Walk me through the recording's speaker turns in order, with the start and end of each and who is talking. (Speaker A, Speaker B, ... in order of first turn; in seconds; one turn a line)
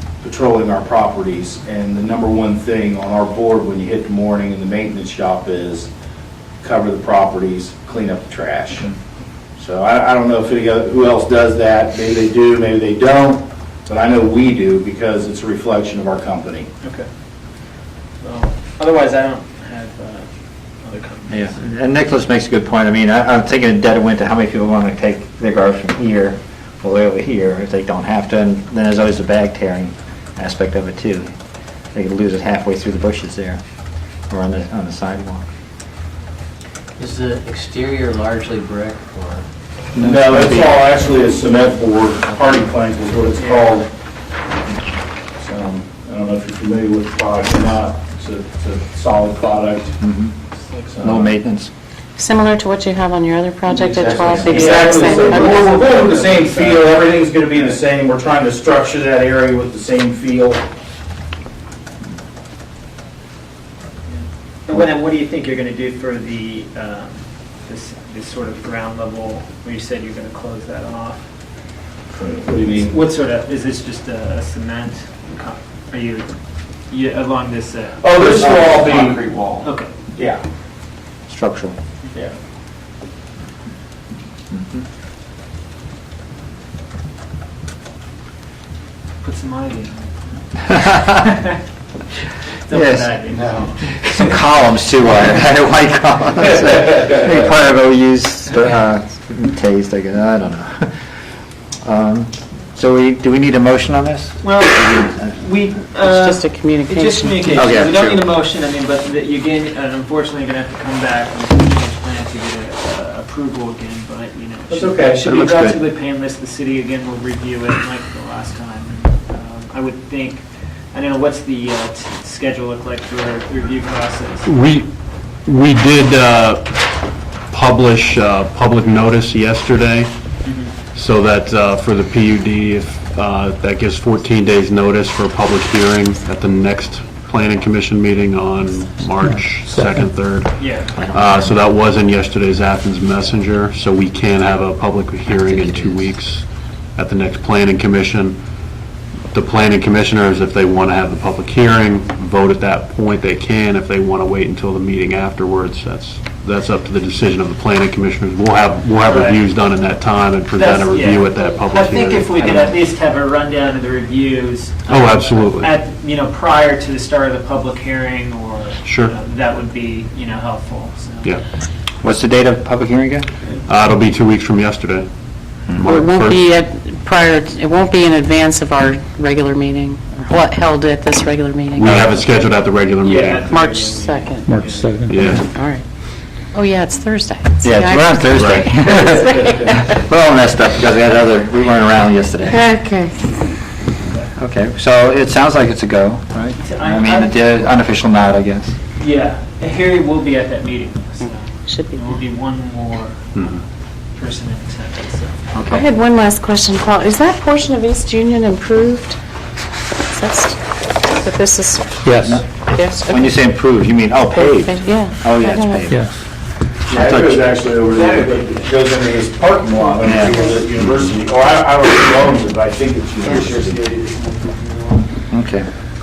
Speaker A: 0.2-5.9
Speaker A: 6.6-8.9
Speaker A: 9.6-16.7
Speaker B: 16.8-17.1
Speaker B: 18.2-20.3
Speaker B: 20.8-21.6
Speaker C: 21.3-31.3
Speaker C: 31.9-33.6
Speaker C: 34.3-35.5
Speaker D: 37.0-39.4
Speaker C: 40.0-40.8
Speaker A: 40.0-43.9
Speaker B: 43.4-43.8
Speaker A: 45.4-50.0
Speaker C: 50.0-50.3
Speaker B: 50.6-50.9
Speaker A: 50.9-51.3
Speaker C: 51.0-51.7
Speaker E: 52.2-55.8
Speaker A: 53.7-60.6
Speaker B: 54.3-57.8
Speaker B: 64.1-71.2
Speaker A: 72.1-73.0
Speaker B: 72.6-76.3
Speaker B: 76.9-78.0
Speaker A: 78.0-79.3
Speaker F: 78.2-79.6
Speaker B: 79.6-79.9
Speaker A: 80.2-80.4
Speaker C: 81.3-81.8
Speaker B: 89.2-91.5
Speaker B: 92.6-94.3
Speaker C: 92.7-93.3
Speaker C: 93.9-100.9
Speaker C: 101.8-104.4
Speaker B: 104.4-124.5
Speaker E: 106.0-107.5
Speaker C: 107.5-108.3
Speaker C: 114.7-115.8
Speaker G: 124.5-124.9
Speaker G: 125.4-126.9
Speaker G: 127.5-148.6
Speaker B: 130.4-130.7
Speaker H: 139.2-140.1
Speaker B: 140.6-141.1
Speaker C: 141.0-141.6
Speaker C: 145.5-146.0
Speaker G: 149.3-162.6
Speaker B: 159.1-159.4
Speaker B: 160.5-171.4
Speaker C: 162.4-162.7
Speaker G: 164.9-165.8
Speaker G: 168.8-169.1
Speaker C: 172.0-173.3
Speaker G: 173.7-176.5
Speaker E: 175.8-182.1
Speaker G: 181.8-183.5
Speaker B: 183.0-185.4
Speaker E: 183.5-184.5
Speaker H: 184.4-185.4
Speaker G: 185.1-185.5
Speaker E: 185.4-185.8
Speaker E: 186.5-189.8
Speaker C: 187.6-192.6
Speaker G: 188.3-188.7
Speaker E: 192.5-193.3
Speaker B: 194.1-194.3
Speaker C: 194.4-198.8
Speaker B: 196.6-197.7
Speaker B: 199.0-203.6
Speaker E: 201.7-202.1
Speaker B: 204.1-205.6
Speaker C: 205.6-205.9
Speaker E: 205.7-209.2
Speaker E: 210.0-213.5
Speaker H: 212.0-212.4
Speaker C: 212.2-216.0
Speaker E: 214.3-215.9
Speaker H: 215.9-216.1
Speaker A: 216.9-224.0
Speaker G: 216.9-217.5
Speaker F: 217.9-218.5
Speaker C: 220.0-221.1
Speaker F: 223.3-225.0
Speaker C: 225.3-225.7